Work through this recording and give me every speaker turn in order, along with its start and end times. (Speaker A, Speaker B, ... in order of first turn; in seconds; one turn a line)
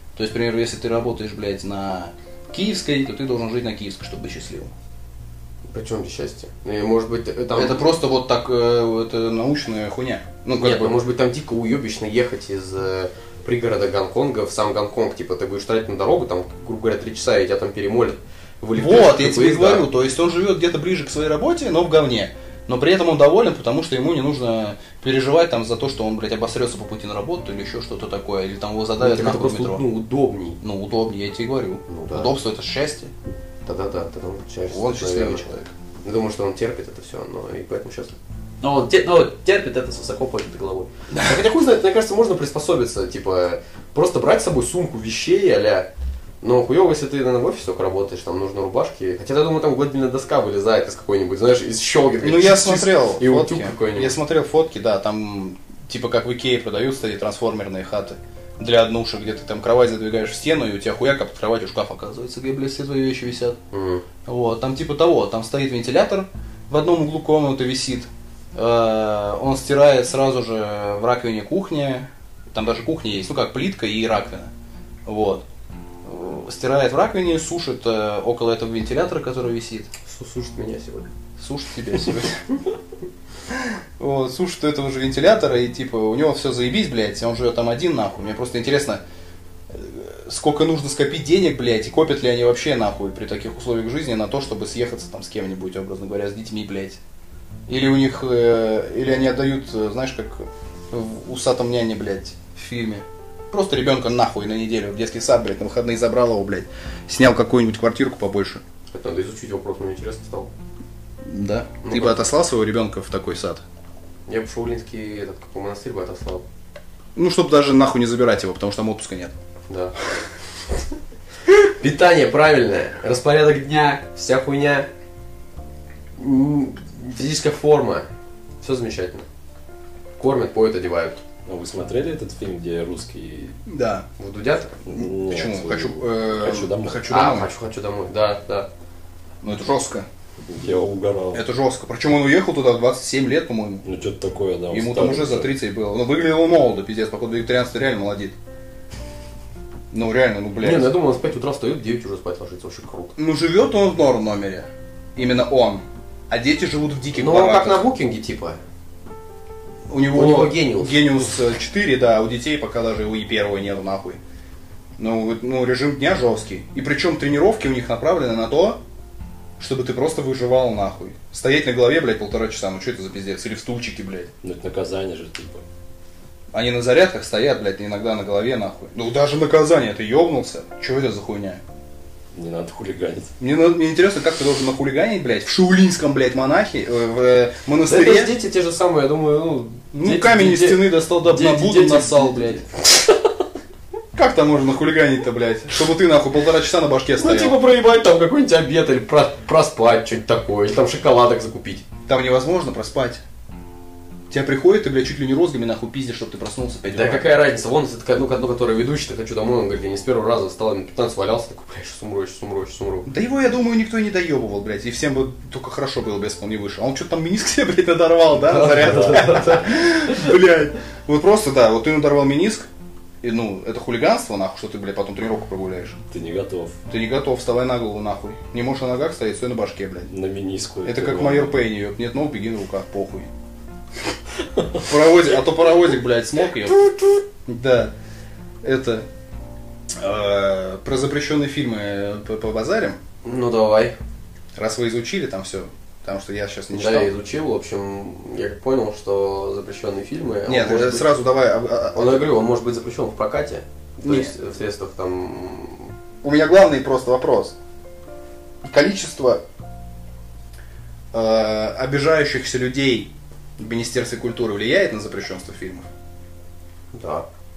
Speaker A: 0.1-4.7
Speaker B: 5.7-7.8
Speaker A: 7.5-11.0
Speaker B: 10.6-19.9
Speaker A: 18.8-29.8
Speaker B: 29.0-30.6
Speaker A: 30.6-33.1
Speaker B: 31.9-32.3
Speaker B: 33.6-35.5
Speaker A: 34.7-35.7
Speaker B: 36.0-45.9
Speaker B: 46.4-54.1
Speaker A: 52.2-63.6
Speaker B: 63.7-64.0
Speaker A: 64.2-74.5
Speaker A: 75.0-75.4
Speaker A: 76.0-79.9
Speaker B: 80.0-81.1
Speaker A: 81.4-82.4
Speaker A: 83.5-89.0
Speaker A: 89.7-97.0
Speaker A: 97.7-108.6
Speaker B: 108.9-110.5
Speaker A: 111.2-113.6
Speaker B: 111.8-112.2
Speaker B: 114.3-116.4
Speaker A: 117.2-119.3
Speaker B: 119.7-120.0
Speaker B: 121.5-124.9
Speaker B: 126.2-128.1
Speaker B: 128.6-129.2
Speaker B: 130.2-131.2
Speaker C: 131.4-133.6
Speaker A: 133.7-134.1
Speaker B: 134.2-134.8
Speaker C: 134.8-137.1
Speaker A: 134.9-137.5
Speaker B: 137.1-138.7
Speaker A: 139.4-140.1
Speaker C: 140.4-141.4
Speaker A: 141.3-143.8
Speaker C: 143.8-145.5
Speaker A: 144.7-148.3
Speaker A: 149.9-150.9
Speaker B: 150.6-153.1
Speaker A: 153.2-157.9
Speaker B: 157.1-158.6
Speaker A: 159.9-164.2
Speaker B: 160.1-161.1
Speaker A: 165.0-168.8
Speaker A: 169.6-174.3
Speaker C: 174.4-175.7
Speaker A: 176.5-181.6
Speaker C: 182.3-183.3
Speaker A: 183.4-188.3
Speaker B: 187.9-192.8
Speaker A: 189.9-192.6
Speaker A: 194.1-197.6
Speaker B: 197.2-201.8
Speaker A: 202.1-203.2
Speaker A: 204.3-207.4
Speaker B: 206.9-213.1
Speaker A: 213.1-222.7
Speaker B: 218.3-220.3
Speaker C: 218.8-219.2
Speaker A: 223.2-226.0
Speaker C: 226.1-226.8
Speaker A: 226.9-230.1
Speaker C: 230.1-231.6
Speaker A: 230.8-233.3
Speaker C: 234.6-234.8
Speaker A: 234.8-236.9
Speaker A: 237.4-237.9
Speaker A: 238.6-239.1
Speaker A: 240.0-243.0
Speaker B: 243.2-243.9
Speaker A: 244.6-247.1
Speaker B: 246.7-251.1
Speaker A: 250.5-252.3
Speaker B: 251.9-255.9
Speaker A: 254.0-254.3
Speaker A: 256.2-257.5
Speaker A: 258.6-259.4
Speaker A: 261.1-265.9
Speaker B: 266.9-267.2